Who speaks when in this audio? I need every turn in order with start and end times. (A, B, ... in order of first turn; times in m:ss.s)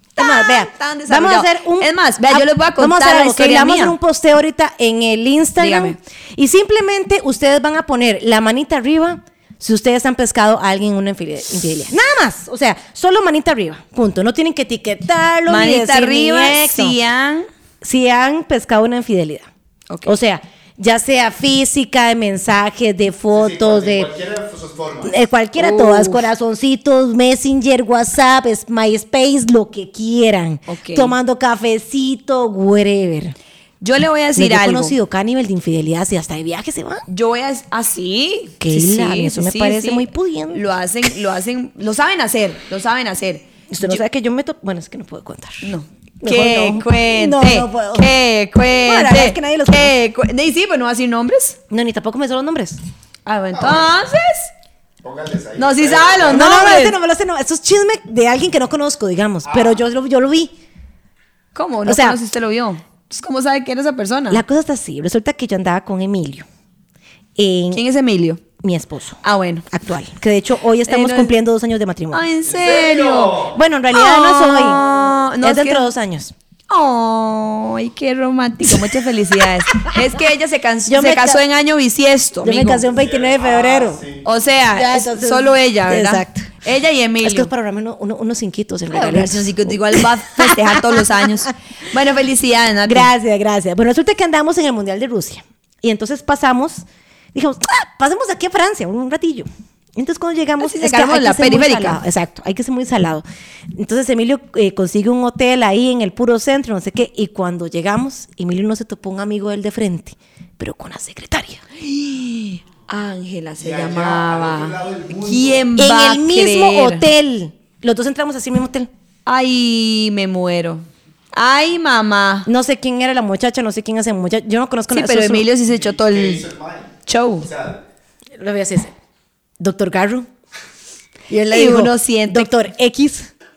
0:00.2-0:04.0 A
0:00.2-0:16.9 B
0:05.6-0:06.0 A
0:15.5-0:17.5 A
0:17.8-0:19.5 B
0:19.9-0:20.1 A
0:20.0-0:24.1 B
0:23.3-0:25.2 C
0:25.0-0:33.3 B
0:25.6-0:26.2 A
0:30.7-0:31.1 A
0:33.8-0:35.0 A
0:34.4-0:37.0 B
0:37.1-0:44.0 A
0:38.6-0:40.7 B
0:43.7-0:48.1 B
0:45.6-0:51.6 A
0:48.8-0:49.9 B
0:51.7-0:52.8 B
0:53.2-0:54.5 A
0:53.5-0:53.9 C
0:55.0-0:56.5 C
0:55.6-0:57.0 A
0:56.3-1:00.5 B
0:59.4-0:59.8 C
1:01.5-1:04.4 A
1:01.8-1:02.2 B
1:04.3-1:06.5 B
1:07.4-1:07.8 B
1:07.7-1:08.4 A
1:08.6-1:12.2 B
1:09.2-1:09.7 A
1:10.9-1:11.3 A
1:12.1-1:15.9 A
1:12.5-1:13.6 C
1:13.5-1:14.8 B
1:15.4-1:16.3 B
1:16.7-1:22.8 A
1:19.4-1:20.1 B
1:20.9-1:21.4 B
1:22.4-1:24.0 B
1:22.8-1:24.2 C
1:24.2-1:27.5 A
1:24.7-1:26.5 B
1:27.2-1:31.0 B
1:28.9-1:33.1 A
1:32.8-1:51.6 B
1:40.6-1:42.0 A
1:51.8-1:57.0 A
1:53.6-1:55.7 C
1:55.8-1:58.9 B
1:59.2-2:02.5 A
2:02.5-2:05.4 B
2:04.9-2:06.5 A
2:05.7-2:07.8 C
2:07.1-2:07.5 A
2:08.4-2:08.9 B
2:09.6-2:10.3 B
2:11.3-2:13.3 B
2:11.5-2:12.5 A